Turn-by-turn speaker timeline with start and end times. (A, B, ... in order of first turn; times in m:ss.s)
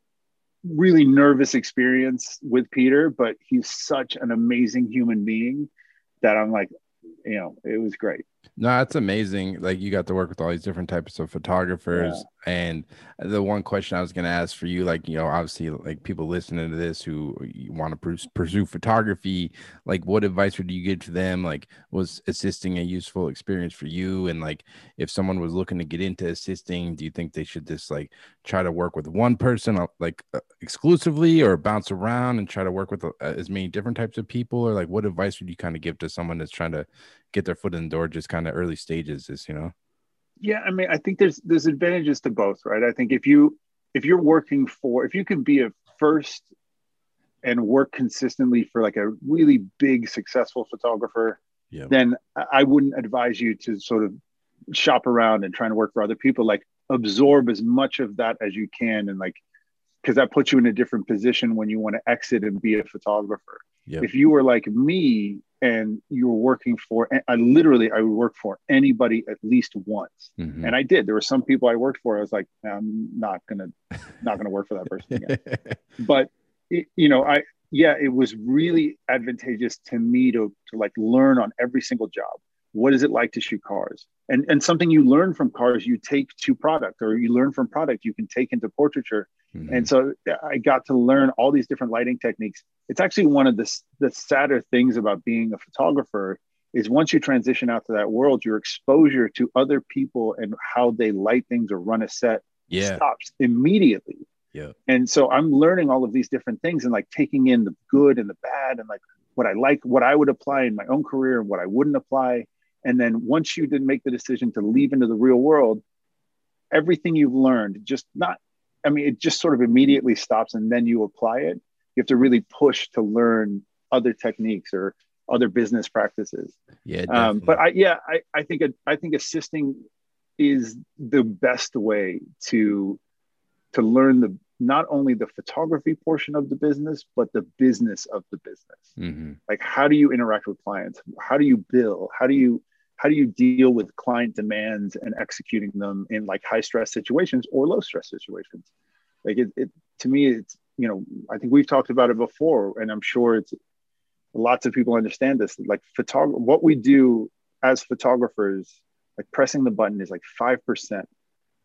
0:00.6-0:05.7 A
0:06.2-0:06.7 A
0:07.2-0:08.2 A
0:08.6-0:39.7 B
0:11.9-0:12.2 A
0:40.4-0:46.5 A
0:47.4-0:54.1 A
0:54.7-0:59.4 A
1:00.0-1:15.4 A
1:10.4-1:10.7 B
1:15.1-1:15.8 B
1:16.0-1:44.3 A
1:29.5-1:29.9 B
1:42.7-1:43.0 B
1:44.9-1:55.8 A
1:56.7-2:06.6 A
2:06.9-2:07.6 B
2:07.1-2:09.8 A
2:10.4-2:13.0 A
2:13.7-2:18.9 A
2:19.0-2:19.4 B
2:19.5-2:28.7 A
2:29.2-2:33.5 A
2:34.3-2:41.1 A